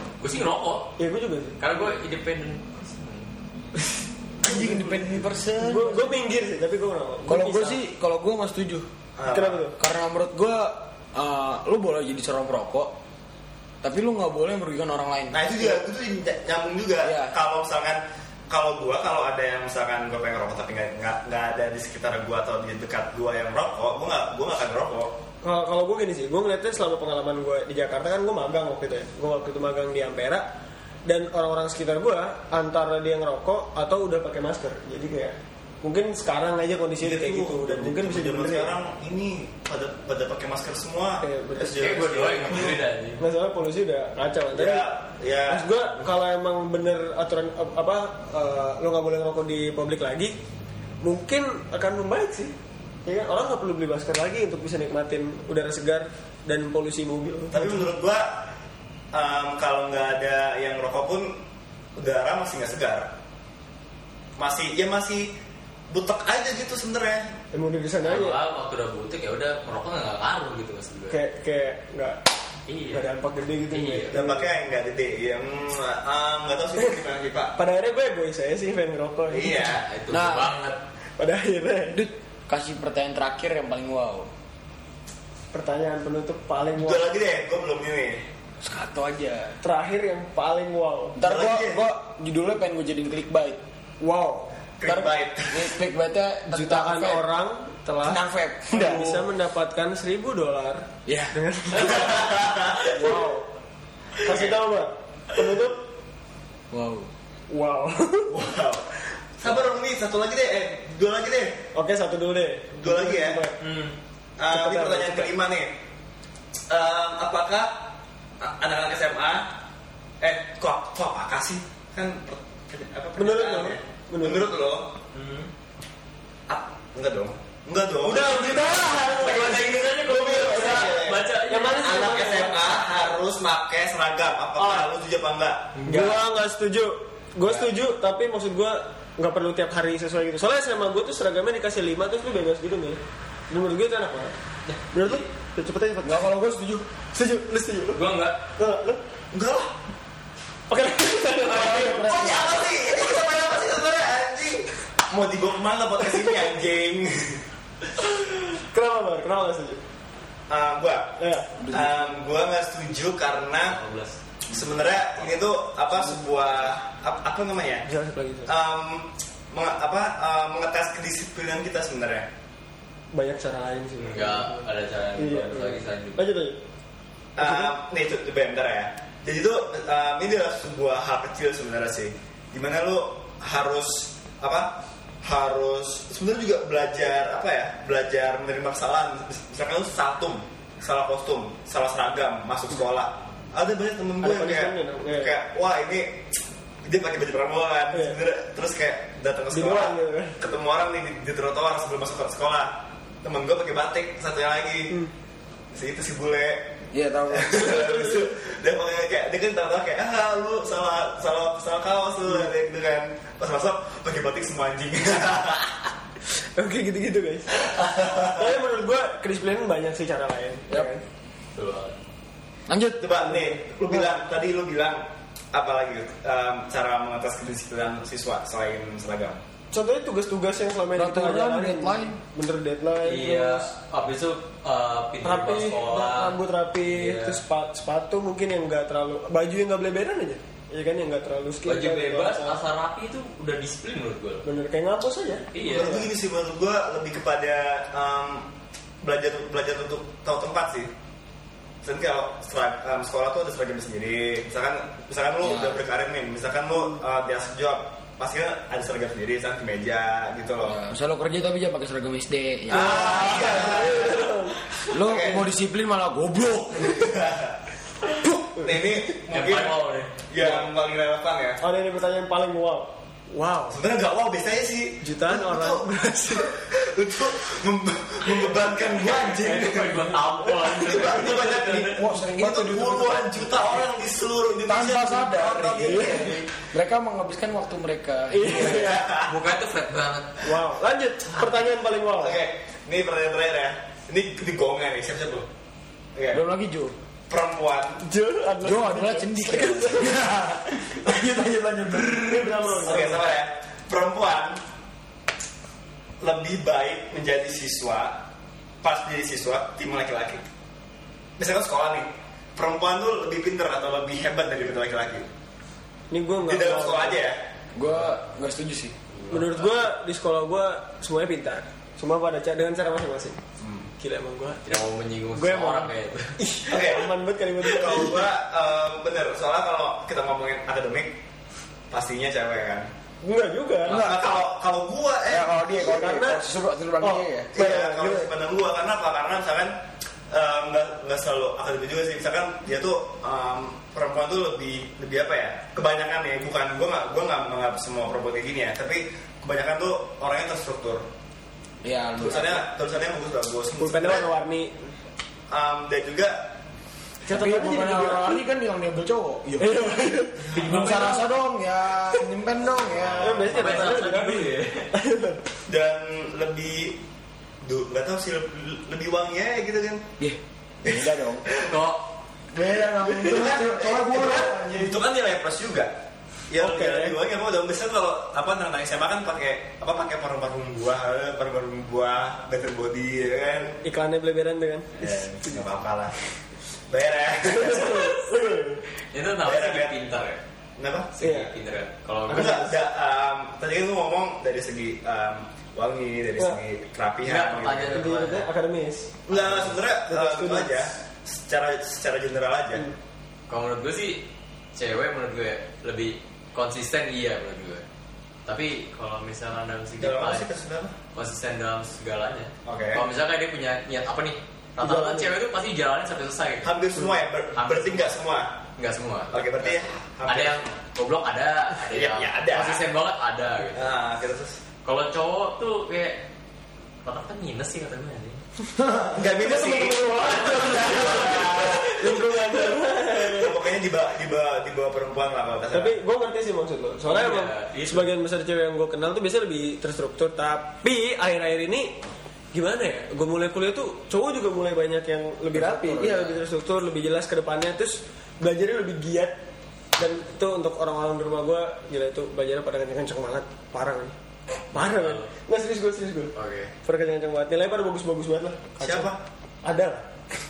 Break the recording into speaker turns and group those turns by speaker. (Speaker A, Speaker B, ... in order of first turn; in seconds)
Speaker A: 0.2-0.9, 1.6-3.3, 41.8-43.2, 68.0-71.2, 72.7-73.1, 73.7-74.2, 79.6-80.8, 113.6-114.0, 125.1-125.5, 128.9-132.8, 135.8-136.2, 144.7-145.2, 147.9-148.4, 163.7-164.2, 174.1-176.3, 221.6-222.0, 233.0-237.4, 241.7-244.4, 245.5-246.0, 269.3-270.1, 279.1-282.0, 286.0-286.4, 289.2-290.6, 319.1-319.7, 324.7-326.4, 360.5-361.2, 363.3-364.9, 371.6-372.0, 389.1-390.4, 391.1-392.7, 397.2-398.5, 399.3-399.8, 403.5-407.8, 408.5-410.5, 411.1-416.8, 417.6-418.2, 418.8-423.9, 424.9-426.2, 427.0-428.4, 430.5-431.4, 437.1-438.1, 454.8-455.3, 456.4-456.7
Speaker B: 1.0-1.6, 5.6-7.8, 9.3-9.8, 25.4-30.5, 31.1-38.7, 41.2-42.0, 43.2-44.9, 45.5-50.4, 51.0-52.5, 53.0-57.9, 67.5-68.4, 71.1-72.2, 72.9-74.5, 77.6-79.7, 81.2-82.0, 85.5-87.1, 89.6-91.2, 94.0-94.5, 96.5-103.5, 104.2-105.8, 107.5-108.3, 111.7-113.6, 114.5-115.3, 123.2-124.5, 128.0-132.6, 134.6-134.9, 135.8-144.3, 144.9-146.2, 147.1-148.0, 148.6-149.0, 150.7-153.0, 158.0-159.8, 161.2-161.5, 167.8-168.5, 173.1-174.6, 175.2-176.6, 177.4-177.7, 194.2-195.3, 199.5-200.4, 207.5-208.3, 216.6-221.0, 223.2-224.1, 229.7-233.7, 235.2-242.6, 244.4-246.1, 262.7-264.6, 270.4-270.6, 271.6-273.8, 275.0-276.5, 280.6-281.2, 285.8-286.3, 288.3-289.1, 290.4-292.4, 298.0-300.3, 302.2-303.4, 316.1-317.3, 319.3-323.4, 324.0-324.8, 325.3-328.2, 333.2-334.1, 335.7-336.4, 337.0-338.3, 353.8-354.9, 357.2-358.4, 359.6-361.0, 363.2-365.4, 376.6-377.2, 383.8-385.2, 387.4-388.8, 391.2-391.5, 392.3-392.8, 397.9-399.1, 400.1-400.9, 414.8-415.3, 429.1-433.7, 435.7-442.0, 442.5-449.4, 450.0-454.1, 454.7-460.1
Speaker C: 4.4-6.2, 7.3-8.9, 9.8-12.9, 13.8-15.6, 17.0-17.4, 80.1-80.5, 81.9-84.3, 88.6-89.6, 91.2-93.6, 94.8-97.3, 98.0-99.3, 101.1-101.4, 106.7-107.1, 146.0-146.9, 151.4-152.5, 206.9-207.8, 222.7-223.1, 230.9-232.2, 255.4-255.8, 260.6-263.7, 264.9-267.1, 281.9-283.5, 284.6-289.0, 296.3-296.9, 298.6-302.9, 317.7-318.9, 333.9-334.2, 335.3-337.5, 351.8-352.7, 357.3-363.8, 370.2-371.5, 372.5-375.0, 445.5-446.4
Speaker D: 9.2-9.6, 15.3-25.2, 37.0-42.8, 44.5-45.7, 57.5-58.5, 59.1-61.4, 62.0-63.1, 64.4-65.3, 65.9-67.3, 74.1-77.5, 79.3-79.9, 86.8-88.2, 91.2-91.8, 94.8-95.7, 101.8-102.9, 104.2-104.6, 108.3-108.9, 109.4-111.6, 112.8-113.5, 114.4-115.7, 116.7-117.8, 118.4-119.5, 120.2-124.9, 126.5-131.3, 131.8-135.8, 149.3-149.7, 151.8-157.4, 160.5-163.8, 164.5-167.9, 168.5-172.3, 177.4-196.3, 196.8-205.0, 205.7-206.8, 207.3-215.9, 217.6-218.5, 223.0-229.4, 245.6-248.5, 249.0-250.9, 251.8-260.8, 262.7-264.3, 264.9-265.4, 266.8-271.6, 273.7-280.1, 280.7-286.5, 288.5-289.4, 292.2-295.5, 296.1-296.4, 297.3-298.0, 302.8-304.6, 306.2-308.2, 308.8-310.4, 311.4-315.3, 316.5-317.4, 323.6-323.9, 326.7-331.2, 331.9-332.9, 333.9-335.6, 337.5-339.7, 340.3-351.1, 352.2-354.3, 355.5-356.4, 363.0-363.5, 365.7-367.0, 367.6-370.1, 370.8-371.8, 373.2-375.9, 376.5-383.8, 385.0-386.1, 386.9-388.2, 389.4-389.9, 390.8-391.1, 392.3-398.0, 399.3-402.9, 410.0-410.9, 412.7-413.0, 416.6-418.5, 419.3-420.7, 421.9-422.8, 423.8-424.6, 429.1-432.2, 433.1-436.0, 458.8-459.2